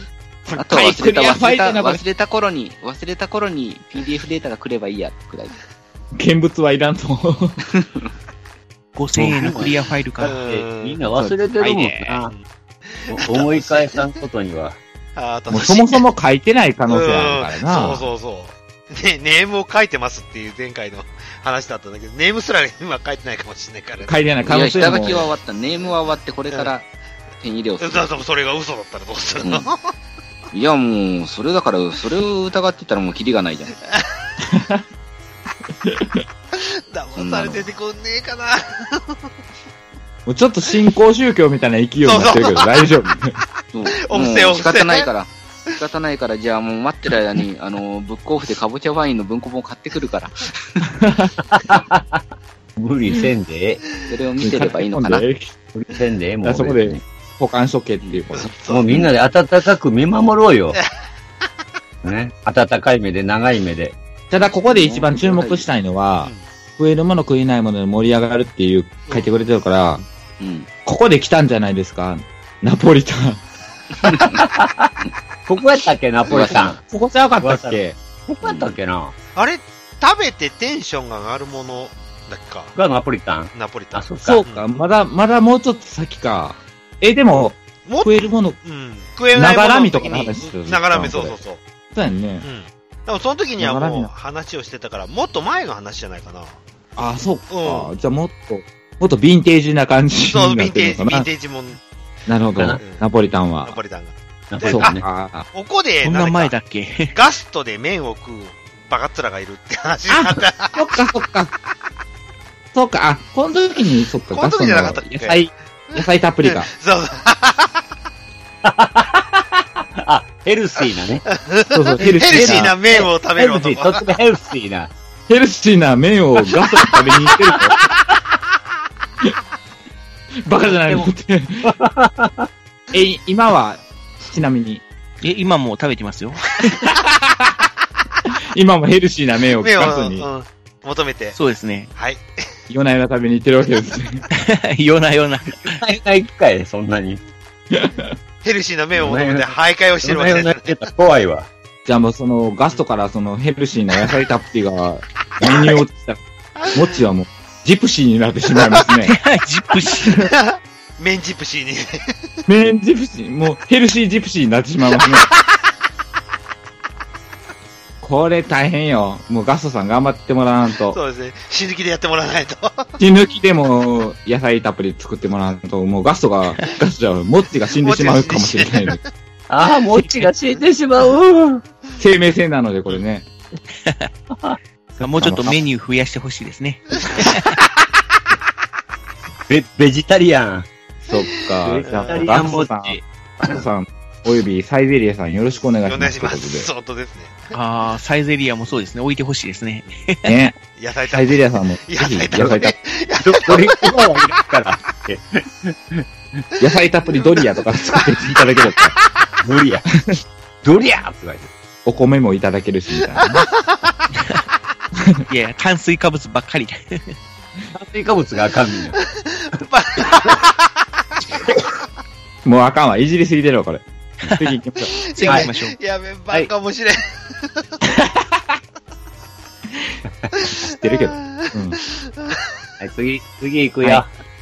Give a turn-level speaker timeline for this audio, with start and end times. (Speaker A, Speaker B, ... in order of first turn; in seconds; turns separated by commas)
Speaker A: 0.5-2.0, Speaker B: 0.6-5.5, Speaker A: 6.2-7.6, Speaker C: 8.9-10.4, Speaker D: 9.2-12.3, Speaker E: 10.2-11.0, Speaker A: 11.1-12.2, Speaker E: 13.0-14.0, Speaker D: 13.1-14.8, Speaker E: 15.2-16.0, Speaker A: 15.5-18.1, Speaker E: 16.9-24.2, Speaker A: 24.0-25.3, Speaker B: 24.4-26.9, Speaker B: 27.4-28.1, Speaker E: 27.8-29.8, Speaker B: 29.4-29.7, Speaker B: 30.5-33.8, Speaker A: 34.5-34.8, Speaker A: 35.9-36.2, Speaker E: 36.6-39.2, Speaker B: 37.2-37.6, Speaker A: 40.3-43.4, Speaker E: 42.0-42.9, Speaker B: 43.7-50.6, Speaker E: 44.0-45.1, Speaker A: 51.0-51.3, Speaker D: 51.5-52.2, Speaker D: 52.8-53.8, Speaker B: 54.1-55.2, Speaker A: 54.4-55.5, Speaker D: 55.7-57.0, Speaker A: 56.4-58.5, Speaker E: 58.3-59.1, Speaker D: 58.7-60.8, Speaker D: 62.0-64.0, Speaker A: 64.3-70.0, Speaker B: 64.5-65.7, Speaker B: 70.4-70.7, Speaker A: 70.8-73.4, Speaker B: 74.0-74.4, Speaker D: 74.1-74.9, Speaker D: 75.5-76.8, Speaker B: 76.3-76.7, Speaker A: 76.5-77.8, Speaker D: 77.4-79.1, Speaker B: 78.4-78.7, Speaker E: 79.4-82.7, Speaker D: 82.8-84.4, Speaker E: 83.5-84.7, Speaker A: 84.2-88.6, Speaker E: 87.9-91.6, Speaker A: 89.3-91.4, Speaker A: 91.9-92.5, Speaker E: 92.4-96.6, Speaker A: 93.6-94.1, Speaker A: 97.0-101.3, Speaker E: 97.5-97.9, Speaker E: 100.2-101.8, Speaker A: 102.3-103.8, Speaker E: 102.8-103.1, Speaker E: 103.6-105.0, Speaker D: 104.5-105.0, Speaker A: 104.7-105.5, Speaker E: 105.5-106.5, Speaker C: 106.0-107.2, Speaker E: 107.1-110.8, Speaker A: 110.1-111.5, Speaker A: 112.7-116.7, Speaker E: 114.3-117.8, Speaker D: 118.6-119.3, Speaker D: 120.0-121.2, Speaker E: 121.4-124.1, Speaker A: 121.7-122.8, Speaker D: 122.1-124.9, Speaker A: 125.3-127.8, Speaker A: 130.4-131.8, Speaker D: 130.7-131.1, Speaker D: 131.6-132.5, Speaker A: 132.9-134.8, Speaker C: 135.2-136.7, Speaker A: 137.1-137.5, Speaker A: 138.5-140.3, Speaker E: 139.6-141.4, Speaker C: 141.3-141.9, Speaker E: 141.9-142.2, Speaker A: 142.7-144.2, Speaker C: 144.4-145.7, Speaker D: 145.7-147.2, Speaker A: 147.7-148.1, Speaker E: 148.4-150.8, Speaker D: 149.0-151.5, Speaker A: 151.9-156.2, Speaker A: 156.7-159.1, Speaker C: 159.1-160.2, Speaker E: 160.3-162.1, Speaker A: 162.5-165.3, Speaker A: 168.0-171.0, Speaker E: 170.9-172.9, Speaker A: 173.0-179.0, Speaker E: 177.8-179.0, Speaker D: 179.5-181.6, Speaker A: 182.0-183.3, Speaker C: 183.8-184.1, Speaker D: 184.3-184.6, Speaker C: 185.0-187.6, Speaker A: 185.1-185.6, Speaker D: 189.5-190.7, Speaker A: 191.1-196.7, Speaker E: 191.5-192.5, Speaker D: 191.7-193.5, Speaker E: 195.8-197.5, Speaker C: 197.5-200.3, Speaker A: 200.2-200.6, Speaker E: 200.8-204.1, Speaker A: 201.1-202.8, Speaker D: 203.2-206.1, Speaker A: 206.6-208.9, Speaker E: 206.6-208.8, Speaker D: 209.4-209.8, Speaker D: 210.6-211.5, Speaker A: 211.8-213.5, Speaker E: 213.2-213.8, Speaker C: 215.3-217.2, Speaker D: 217.8-219.0, Speaker E: 219.2-220.6, Speaker A: 222.4-223.8, Speaker A: 224.4-224.9, Speaker E: 225.1-227.1, Speaker C: 225.2-225.8, Speaker E: 230.4-232.4, Speaker A: 230.7-231.8, Speaker D: 232.8-234.1